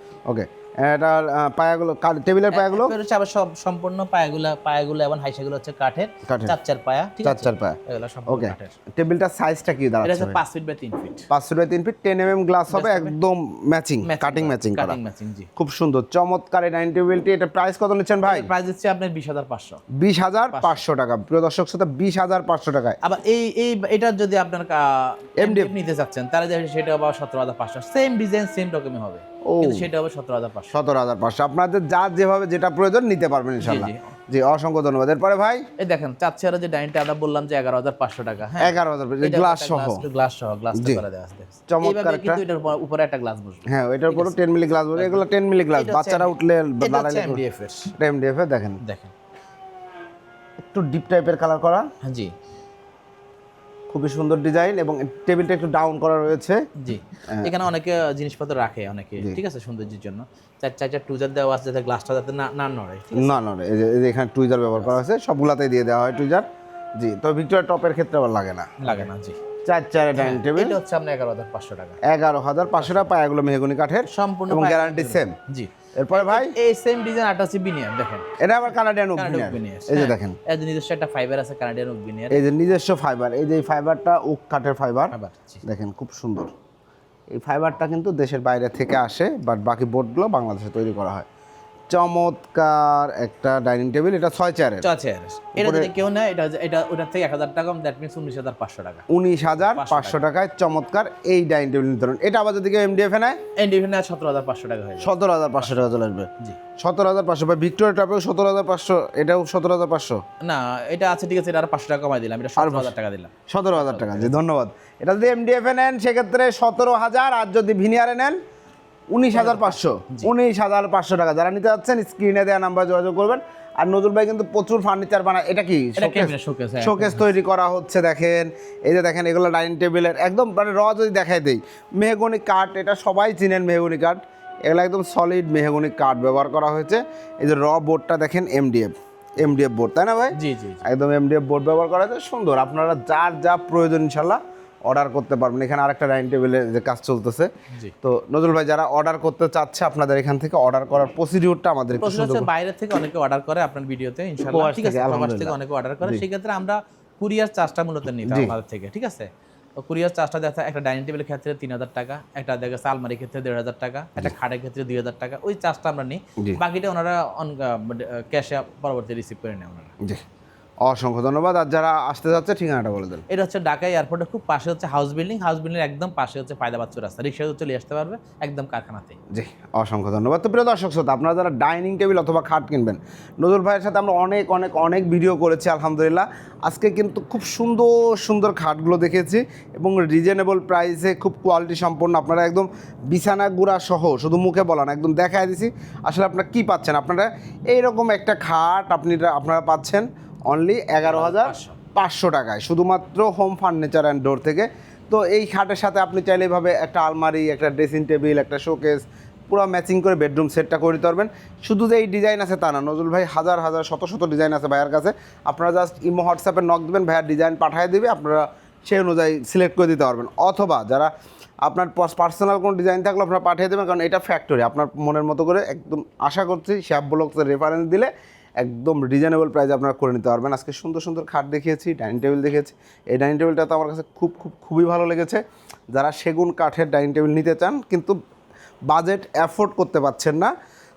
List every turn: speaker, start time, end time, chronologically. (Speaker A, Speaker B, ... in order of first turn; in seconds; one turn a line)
Speaker A: 0.3-2.9
Speaker B: 2.5-8.8
Speaker A: 6.2-6.5
Speaker A: 7.2-10.4
Speaker B: 10.0-11.3
Speaker A: 11.3-15.0
Speaker B: 12.7-13.1
Speaker B: 14.0-15.5
Speaker A: 15.6-18.5
Speaker B: 18.2-19.8
Speaker A: 19.9-23.0
Speaker B: 20.5-20.8
Speaker B: 23.0-30.8
Speaker A: 25.4-25.7
Speaker A: 29.4-29.9
Speaker A: 30.7-35.6
Speaker B: 33.6-34.1
Speaker B: 35.8-44.4
Speaker A: 38.6-40.0
Speaker A: 40.7-41.0
Speaker A: 41.7-42.4
Speaker A: 43.7-47.4
Speaker B: 44.9-47.9
Speaker A: 48.0-48.8
Speaker B: 48.8-49.1
Speaker A: 50.6-51.9
Speaker B: 52.0-52.3
Speaker A: 53.9-56.6
Speaker B: 56.8-63.4
Speaker A: 63.1-66.5
Speaker A: 67.0-69.1
Speaker B: 68.8-69.4
Speaker A: 69.6-70.8
Speaker B: 70.1-72.0
Speaker A: 72.0-75.3
Speaker B: 72.8-73.1
Speaker B: 74.1-78.3
Speaker A: 76.0-76.5
Speaker A: 78.4-80.4
Speaker B: 79.2-82.4
Speaker A: 82.3-86.5
Speaker B: 85.1-85.6
Speaker A: 87.3-91.2
Speaker A: 91.9-94.9
Speaker B: 94.8-99.0
Speaker A: 95.5-95.9
Speaker A: 99.1-103.4
Speaker B: 99.6-100.2
Speaker B: 103.6-106.6
Speaker A: 105.0-110.2
Speaker B: 110.4-114.3
Speaker A: 112.6-112.9
Speaker A: 113.5-118.4
Speaker A: 119.1-147.5
Speaker B: 119.3-120.3
Speaker B: 126.0-127.2
Speaker B: 140.3-140.8
Speaker A: 148.0-152.5
Speaker B: 152.0-169.9
Speaker A: 154.5-156.2
Speaker A: 158.2-158.5
Speaker A: 170.8-173.2
Speaker B: 173.3-179.2
Speaker A: 179.3-221.1
Speaker B: 201.0-201.8
Speaker A: 221.6-235.4
Speaker A: 235.9-238.2
Speaker A: 238.9-240.5